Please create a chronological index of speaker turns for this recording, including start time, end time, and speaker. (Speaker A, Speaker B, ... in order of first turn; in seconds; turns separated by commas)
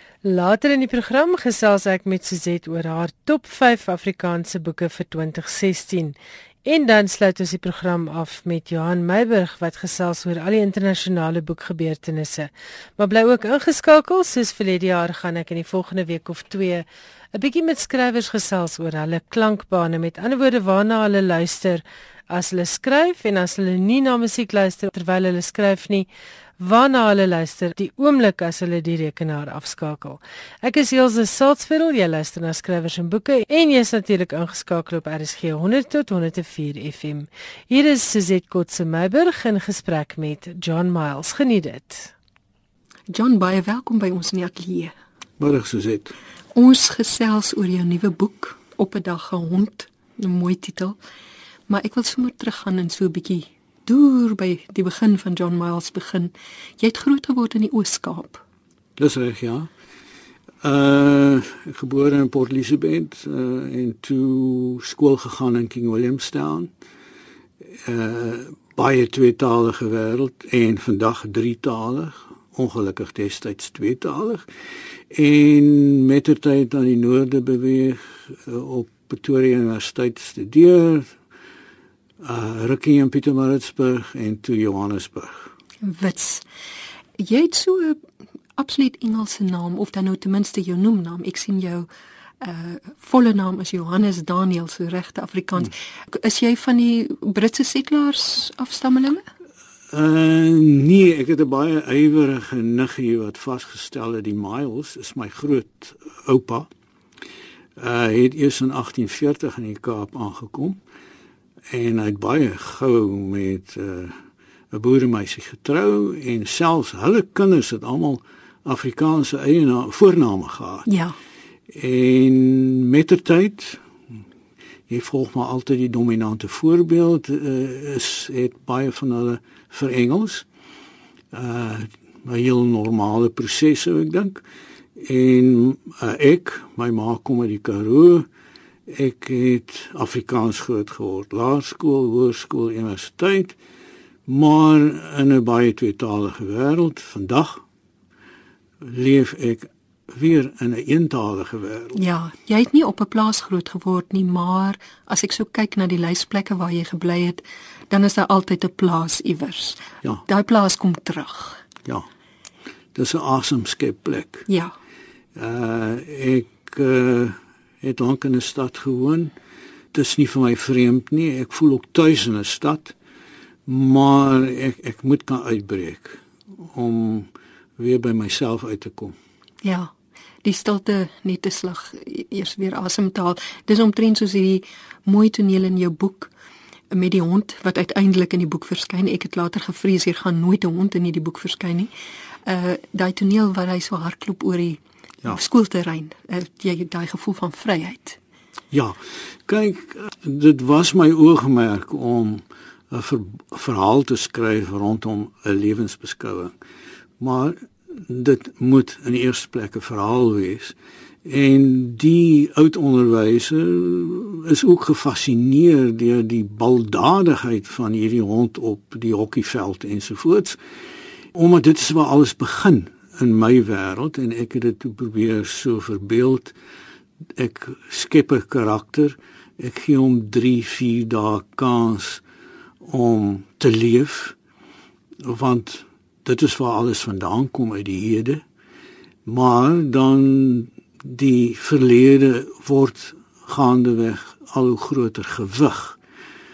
Speaker A: 0.2-26.1, Speaker A: 26.6-42.1, Speaker B: 43.1-44.9, Speaker C: 45.4-46.1, Speaker B: 46.5-51.0, Speaker B: 51.7-58.4, Speaker C: 59.0-59.7, Speaker C: 60.6-66.7, Speaker C: 67.7-74.5, Speaker C: 75.1-81.2, Speaker C: 82.2-85.5, Speaker B: 85.8-86.4, Speaker B: 87.2-88.0, Speaker B: 88.5-91.9, Speaker B: 92.4-99.2, Speaker C: 99.9-106.7, Speaker C: 107.8-110.8, Speaker C: 111.7-114.2, Speaker C: 114.7-120.9, Speaker B: 120.8-121.2, Speaker C: 121.7-123.8, Speaker C: 124.9-130.5, Speaker C: 131.3-134.4, Speaker C: 134.9-138.3, Speaker C: 138.9-143.6, Speaker C: 144.3-147.6, Speaker C: 148.8-152.0, Speaker B: 151.9-161.6, Speaker C: 162.9-164.5, Speaker B: 164.5-164.7, Speaker C: 165.3-169.3, Speaker C: 169.9-172.9, Speaker C: 173.7-179.2, Speaker B: 179.6-179.9, Speaker B: 180.4-186.3, Speaker B: 186.9-191.9, Speaker B: 192.4-198.2, Speaker C: 198.7-206.5, Speaker C: 207.2-220.6, Speaker C: 221.3-226.5, Speaker C: 227.3-232.2, Speaker C: 232.8-234.3, Speaker C: 235.2-238.4, Speaker C: 239.2-246.0